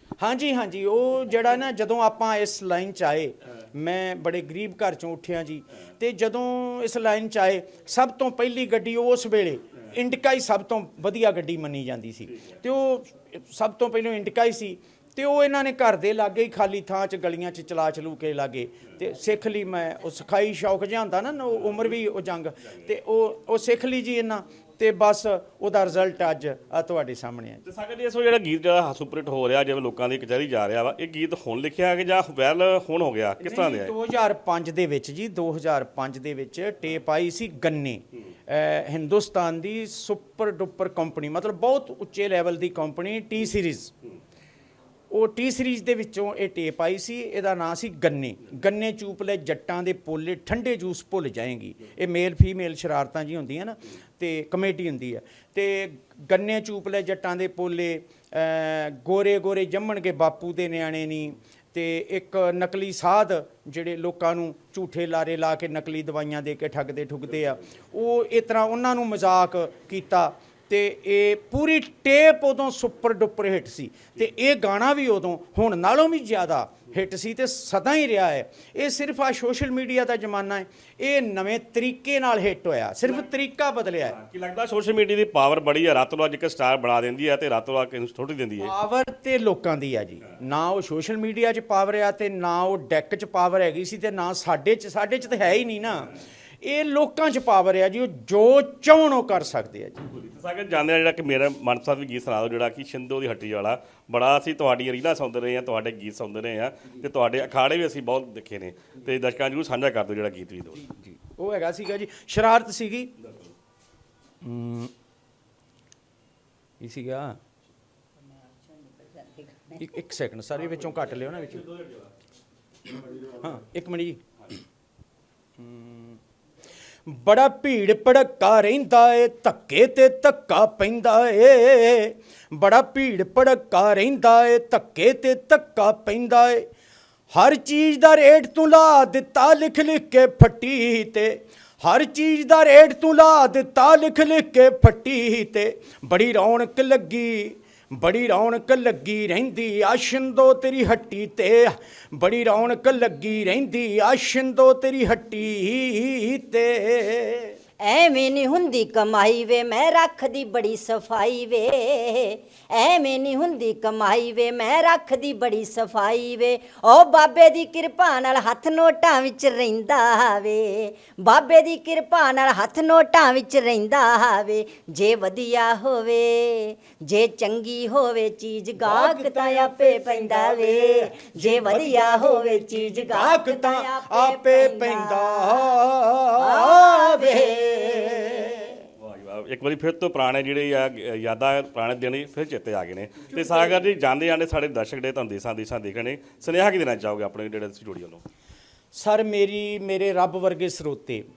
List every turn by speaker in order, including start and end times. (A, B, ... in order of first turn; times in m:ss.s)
0:00.2-0:27.6 A
0:27.6-0:33.9 B
0:33.4-0:43.9 A
0:45.1-1:24.2 A
1:24.0-1:28.7 B
1:28.6-1:40.0 A
1:40.2-1:50.9 B
1:50.9-1:53.1 A
1:53.2-1:53.5 B
1:54.4-1:54.9 A
1:56.8-1:57.4 A
1:58.3-1:59.8 C
1:59.8-2:01.7 A
2:01.6-2:02.0 B
2:03.3-2:04.2 A
2:05.6-2:06.2 A
2:07.1-2:16.7 A
2:17.3-2:37.6 A
2:37.8-3:05.8 C
2:58.8-3:08.8 A
3:06.4-3:08.8 C
3:09.0-3:18.2 B
3:18.9-3:21.2 A